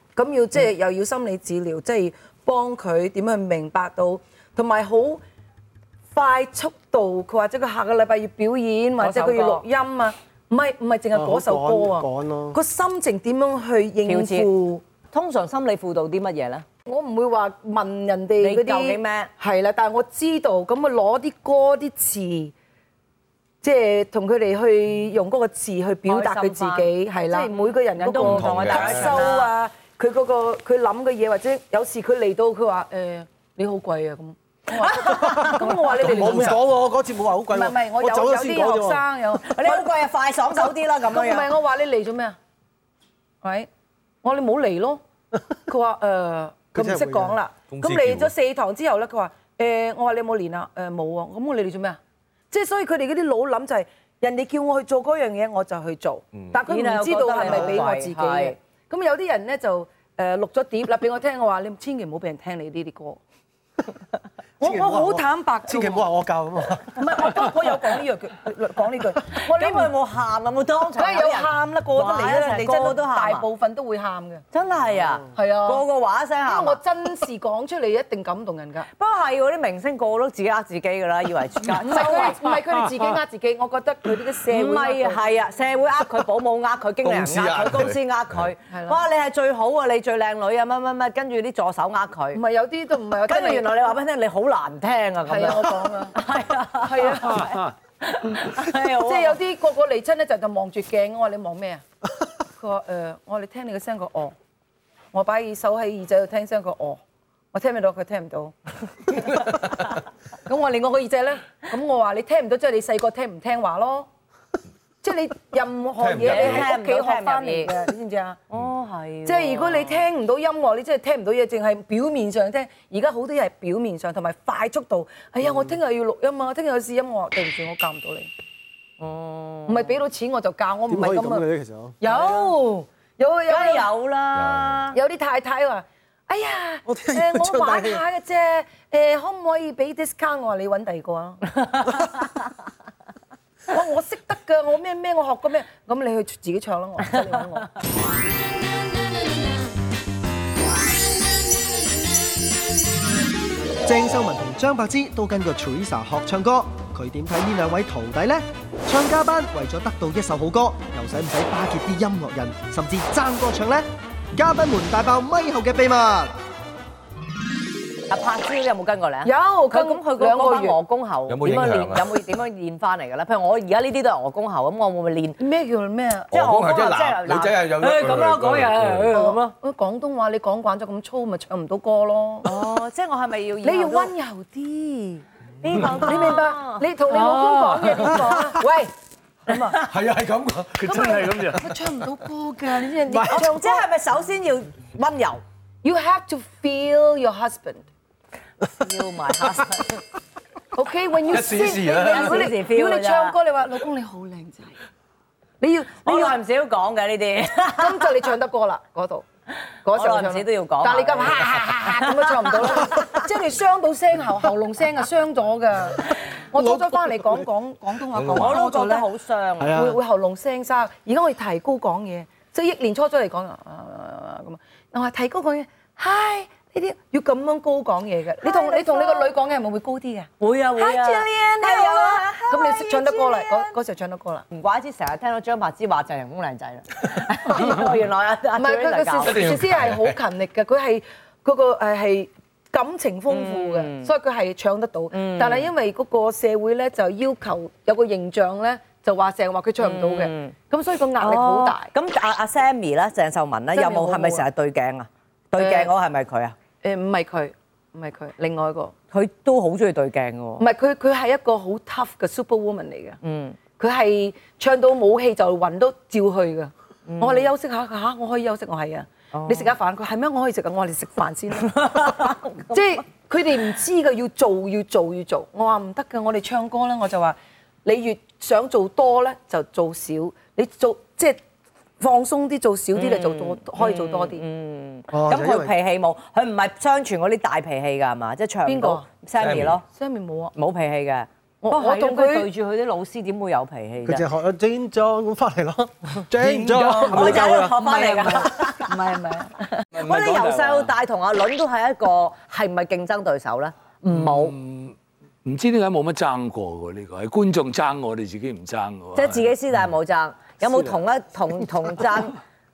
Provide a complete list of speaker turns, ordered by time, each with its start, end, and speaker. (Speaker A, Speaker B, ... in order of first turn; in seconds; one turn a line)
Speaker A: 0.1-5.2
Speaker A: 6.1-14.8
Speaker B: 9.0-9.6
Speaker C: 11.1-12.6
Speaker B: 14.0-14.5
Speaker B: 15.1-16.6
Speaker A: 16.9-22.5
Speaker B: 18.4-19.3
Speaker A: 23.6-36.6
Speaker B: 26.1-29.5
Speaker D: 28.2-29.2
Speaker B: 34.8-35.5
Speaker C: 35.0-39.0
Speaker D: 36.0-36.6
Speaker A: 37.5-39.9
Speaker B: 39.4-41.5
Speaker A: 40.5-42.4
Speaker A: 43.4-43.7
Speaker A: 44.2-45.0
Speaker A: 45.7-52.0
Speaker C: 46.7-47.4
Speaker D: 47.7-48.3
Speaker A: 52.5-63.2
Speaker B: 56.6-58.5
Speaker C: 57.5-57.8
Speaker A: 64.6-66.1
Speaker C: 64.6-67.2
Speaker A: 66.9-69.9
Speaker B: 69.3-73.5
Speaker A: 71.0-74.4
Speaker B: 74.5-76.8
Speaker A: 75.3-75.8
Speaker A: 76.4-78.9
Speaker B: 78.9-82.4
Speaker A: 81.7-85.2
Speaker B: 84.5-92.4
Speaker D: 87.0-88.5
Speaker A: 88.7-89.0
Speaker A: 92.3-93.8
Speaker B: 93.3-99.4
Speaker A: 95.2-96.2
Speaker A: 96.8-97.6
Speaker E: 97.3-97.7
Speaker A: 98.8-101.8
Speaker A: 102.6-104.3
Speaker A: 105.1-107.0
Speaker A: 107.5-108.5
Speaker A: 110.5-114.1
Speaker A: 115.0-118.4
Speaker D: 116.0-116.7
Speaker B: 116.2-117.7
Speaker B: 118.5-120.0
Speaker A: 119.2-128.3
Speaker B: 129.0-130.0
Speaker A: 129.7-131.4
Speaker C: 130.9-132.0
Speaker A: 132.0-133.9
Speaker B: 132.0-132.5
Speaker B: 133.5-135.0
Speaker D: 134.3-134.9
Speaker A: 134.9-141.9
Speaker C: 136.8-138.0
Speaker B: 141.7-142.0
Speaker A: 143.7-147.7
Speaker F: 153.8-166.3
Speaker B: 168.1-175.4
Speaker A: 169.2-170.8
Speaker D: 171.3-172.1
Speaker A: 175.4-176.3
Speaker D: 176.3-179.1
Speaker B: 176.3-179.5
Speaker A: 179.1-182.5
Speaker B: 182.4-184.1
Speaker A: 183.6-188.9
Speaker B: 185.6-186.9
Speaker E: 187.1-188.3
Speaker A: 189.5-189.8
Speaker B: 189.5-189.8
Speaker D: 189.8-191.6
Speaker E: 190.8-191.7
Speaker A: 190.8-193.9
Speaker C: 193.1-193.4
Speaker B: 193.2-195.4
Speaker A: 195.8-197.8
Speaker B: 198.7-200.0
Speaker A: 200.7-204.8
Speaker D: 201.3-202.5
Speaker B: 202.0-203.3
Speaker A: 205.6-206.3
Speaker B: 206.0-208.1
Speaker A: 207.8-209.2
Speaker A: 209.8-219.1
Speaker B: 209.9-213.2
Speaker C: 216.5-217.5
Speaker D: 218.1-218.6
Speaker B: 218.3-219.8
Speaker C: 219.6-220.0
Speaker A: 219.7-234.4
Speaker B: 228.4-229.3
Speaker B: 230.4-233.7
Speaker B: 234.5-239.4
Speaker A: 238.6-251.9
Speaker D: 239.2-240.2
Speaker B: 243.3-244.1
Speaker B: 245.1-245.7
Speaker B: 249.8-250.5
Speaker B: 251.2-256.5
Speaker A: 253.7-254.4
Speaker A: 255.5-255.9
Speaker A: 256.8-258.9
Speaker B: 259.1-260.6
Speaker A: 260.6-263.2
Speaker B: 263.2-263.6
Speaker A: 263.7-281.4
Speaker B: 267.1-267.5
Speaker B: 269.3-269.7
Speaker B: 271.7-272.8
Speaker A: 282.0-284.4
Speaker B: 282.9-289.8
Speaker C: 285.1-285.7
Speaker A: 288.6-289.1
Speaker D: 289.4-289.8
Speaker A: 289.9-290.5
Speaker B: 290.5-294.2
Speaker A: 291.6-292.5
Speaker C: 294.0-297.7
Speaker E: 296.4-297.5
Speaker B: 296.9-299.0
Speaker A: 297.4-299.5
Speaker B: 299.6-304.5
Speaker E: 299.9-300.9
Speaker E: 304.1-309.5
Speaker B: 309.1-312.4